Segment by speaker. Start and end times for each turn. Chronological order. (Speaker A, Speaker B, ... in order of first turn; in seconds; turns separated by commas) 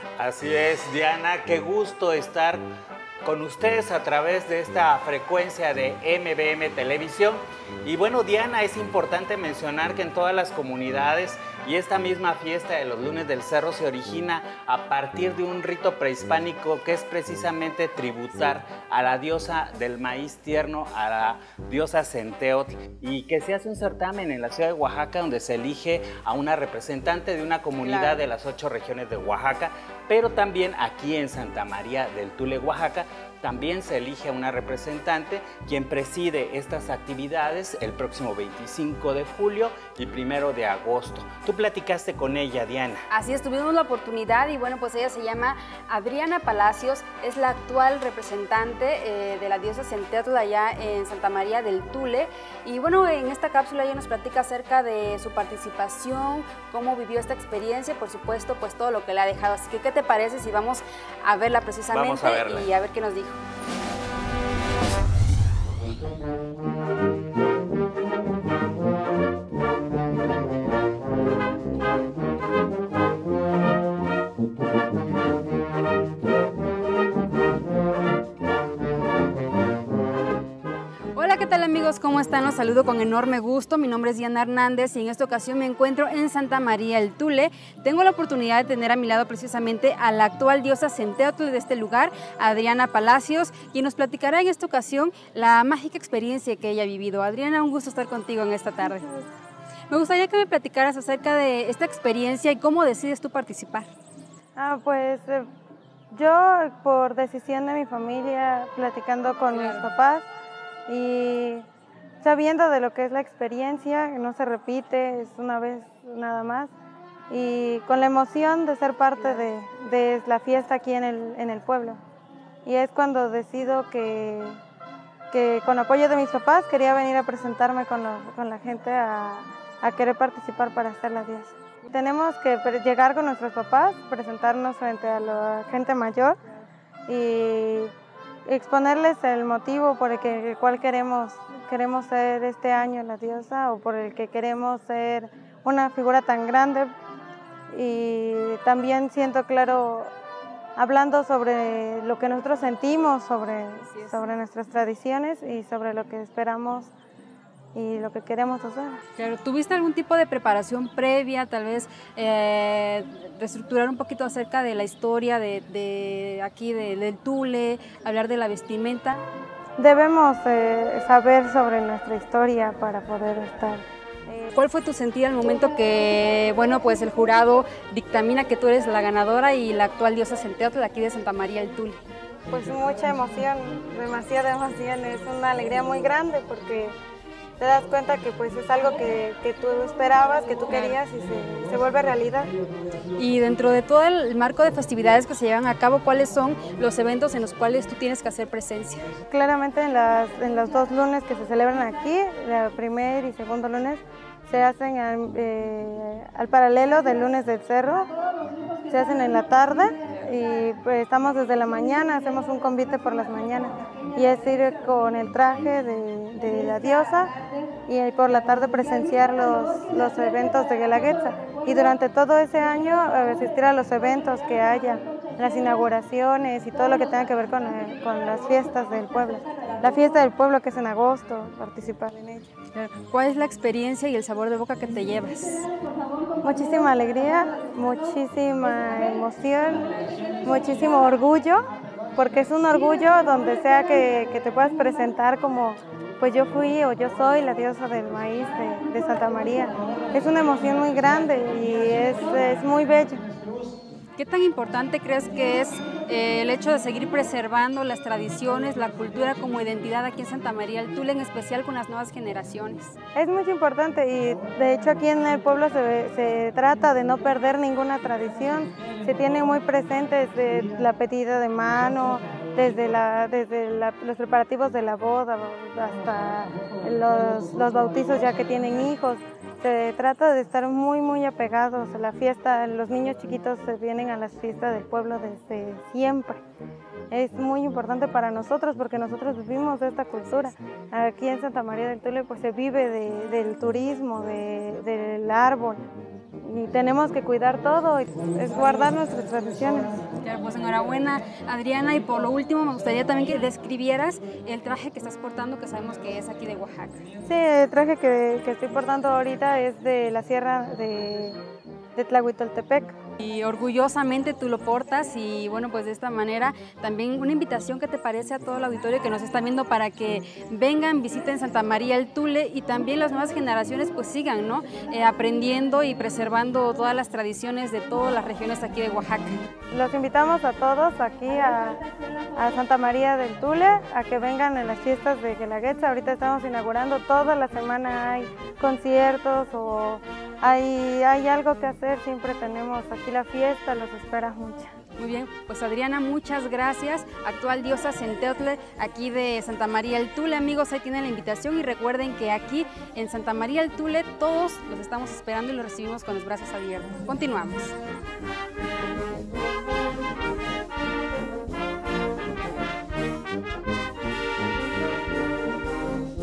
Speaker A: 0.2-2.6, Speaker A: 3.2-43.0, Speaker B: 27.8-28.2, Speaker B: 43.1-63.4, Speaker A: 61.9-62.7, Speaker B: 81.2-99.1, Speaker C: 98.9-99.2, Speaker B: 99.9-103.9, Speaker C: 104.6-105.5, Speaker C: 106.1-110.3, Speaker B: 109.5-109.9, Speaker C: 110.9-111.7, Speaker C: 112.2-116.7, Speaker C: 117.3-122.0, Speaker B: 119.2-119.5, Speaker C: 122.7-124.6, Speaker C: 125.3-136.4, Speaker C: 137.1-137.9, Speaker C: 138.5-146.9, Speaker C: 147.7-150.1, Speaker C: 150.8-156.9, Speaker B: 153.9-154.2, Speaker C: 157.7-159.0, Speaker B: 159.2-169.2, Speaker C: 169.8-174.6, Speaker B: 174.5-182.0, Speaker C: 182.5-187.0, Speaker C: 187.6-192.5, Speaker B: 190.7-191.0, Speaker B: 193.2-199.0, Speaker C: 199.3-208.1, Speaker C: 208.9-217.3, Speaker C: 217.9-232.5, Speaker B: 232.7-235.7, Speaker C: 236.4-239.9, Speaker C: 240.4-253.2, Speaker B: 254.2-262.9, Speaker C: 263.1-286.4, Speaker C: 287.1-295.8, Speaker C: 296.4-300.0, Speaker B: 300.2-307.0, Speaker C: 307.2-311.4, Speaker C: 312.0-313.0, Speaker B: 313.2-329.4, Speaker C: 329.7-331.8, Speaker C: 332.4-344.7, Speaker B: 345.0-357.8